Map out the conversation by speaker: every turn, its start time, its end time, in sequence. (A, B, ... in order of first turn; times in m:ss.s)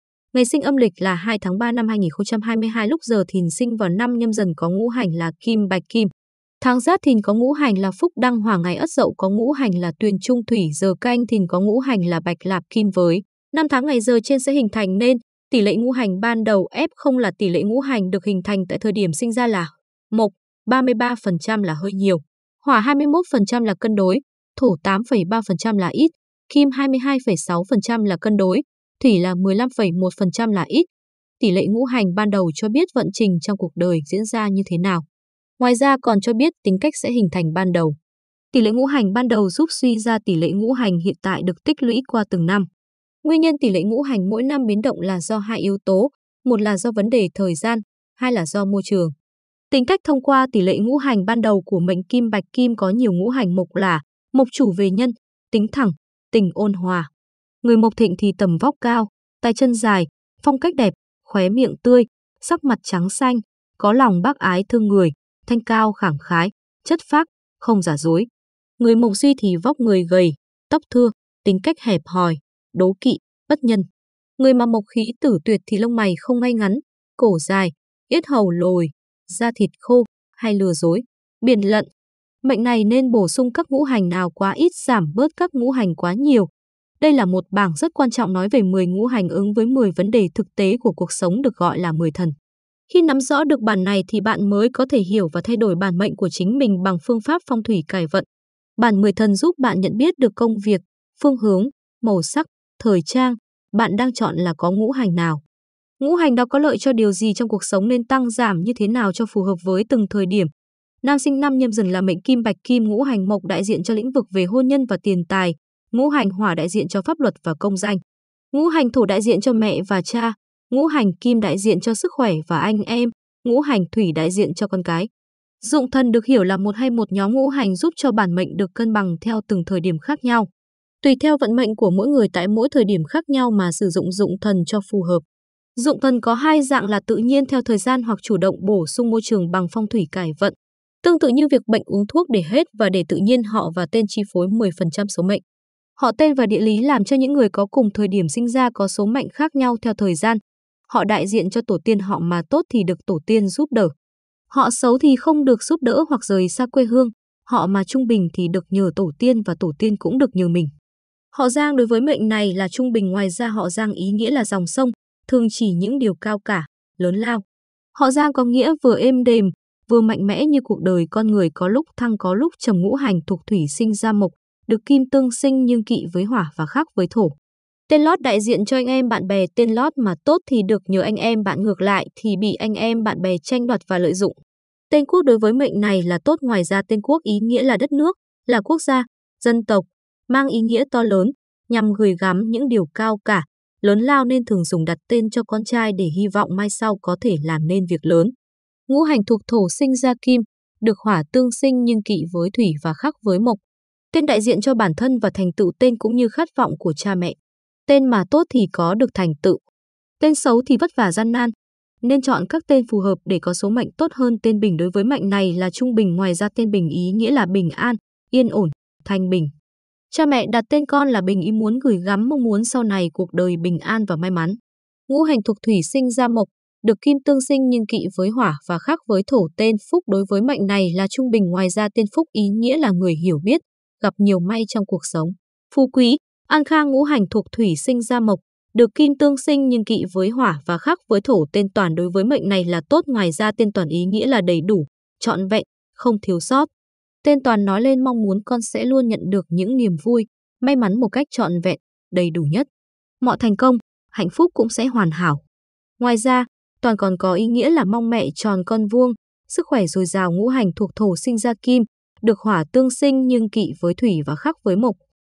0:00.3-0:06.1 A
0:06.6-0:30.9 A
0:31.4-0:35.0 A
0:35.6-0:38.0 A
0:38.5-0:42.7 A
0:43.2-0:49.1 A
0:49.7-0:57.1 A
0:57.6-1:08.3 A
1:08.8-1:13.9 A
1:14.4-1:21.9 A
1:22.4-1:26.5 A
1:27.0-1:32.3 A
1:32.9-1:38.2 A
1:38.8-1:45.4 A
1:46.0-1:50.5 A
1:51.0-1:58.0 A
1:58.5-2:05.1 A
2:05.6-2:10.5 A
2:11.0-2:15.2 A
2:15.8-2:25.4 A
2:26.0-2:33.9 A
2:34.5-2:40.7 A
2:41.3-2:47.4 A
2:48.0-2:57.4 A
2:57.9-3:04.3 A
3:04.9-3:18.3 A
3:18.9-3:23.6 A
3:24.1-3:27.4 A
3:27.9-3:29.6 A
3:30.2-3:31.5 A
3:32.0-3:39.5 A
3:40.1-3:44.6 A
3:45.1-4:06.7 A
4:07.2-4:12.7 A
4:13.2-4:15.4 A
4:16.0-4:25.0 A